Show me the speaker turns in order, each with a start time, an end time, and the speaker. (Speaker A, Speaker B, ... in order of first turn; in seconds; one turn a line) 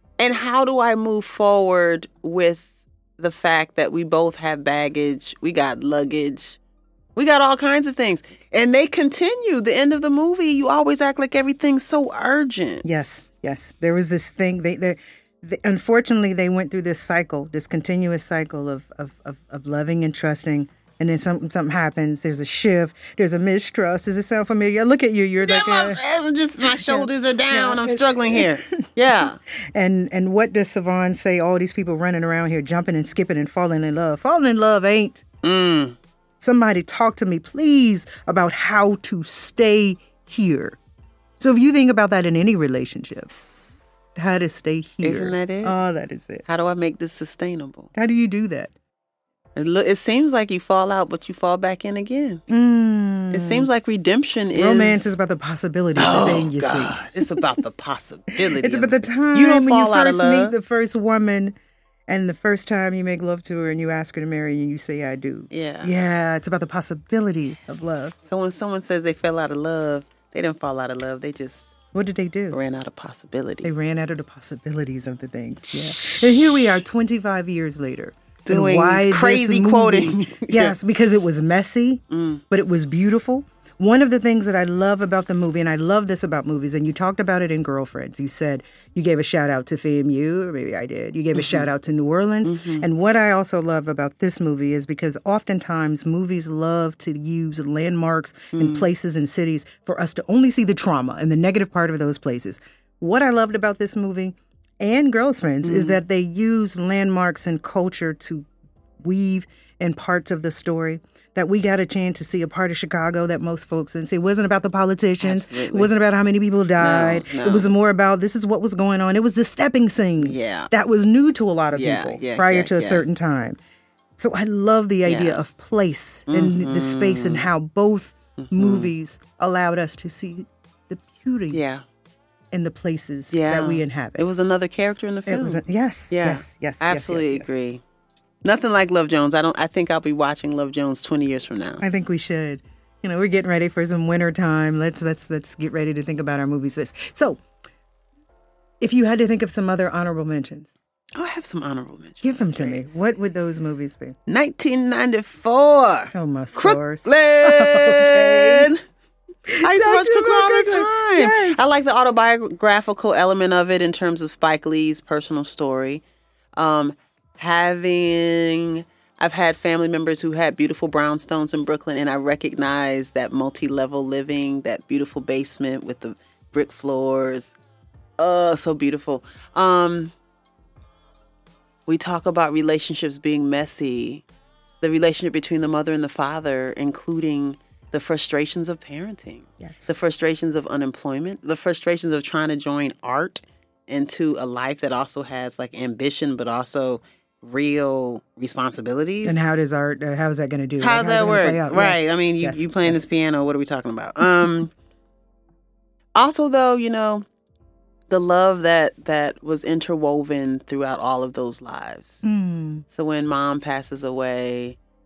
Speaker A: 0.2-6.6
Speaker A: 7.2-12.8
Speaker B: 12.8-26.0
Speaker A: 25.4-29.4
Speaker B: 26.6-35.2
Speaker A: 35.4-36.0
Speaker B: 36.4-40.8
Speaker B: 41.4-43.5
Speaker B: 44.1-46.4
Speaker A: 45.0-45.8
Speaker A: 46.5-47.9
Speaker B: 48.0-48.7
Speaker A: 49.6-52.4
Speaker B: 52.5-53.7
Speaker A: 53.3-55.1
Speaker B: 54.5-57.5
Speaker A: 56.0-60.5
Speaker B: 58.4-61.5
Speaker B: 62.1-68.2
Speaker A: 65.5-65.9
Speaker A: 68.2-71.7
Speaker B: 71.9-72.6
Speaker A: 72.5-73.7
Speaker B: 73.6-108.5
Speaker A: 78.5-80.8
Speaker A: 82.1-82.4
Speaker A: 91.3-91.7
Speaker A: 92.5-92.8
Speaker A: 98.5-98.8
Speaker A: 105.6-106.0
Speaker B: 109.0-123.6
Speaker A: 115.2-115.9
Speaker A: 116.8-117.7
Speaker A: 120.2-120.7
Speaker A: 121.7-123.0
Speaker B: 124.2-131.6
Speaker A: 125.0-125.4
Speaker A: 126.3-127.5
Speaker A: 128.4-128.9
Speaker A: 131.5-131.8
Speaker B: 132.5-134.2
Speaker A: 133.3-137.8
Speaker B: 135.3-137.5
Speaker A: 138.4-141.8
Speaker B: 141.8-147.4
Speaker B: 148.8-150.7
Speaker A: 151.2-152.8
Speaker B: 152.2-154.2
Speaker A: 154.3-158.8
Speaker B: 156.1-158.7
Speaker B: 159.5-161.7
Speaker A: 159.6-166.0
Speaker A: 166.6-177.6
Speaker A: 178.2-180.1
Speaker A: 181.9-184.2
Speaker A: 184.8-199.4
Speaker B: 189.6-189.9
Speaker B: 199.2-203.0
Speaker A: 200.8-204.7
Speaker A: 206.2-207.2
Speaker A: 208.1-212.2
Speaker B: 212.2-212.8
Speaker A: 212.9-214.8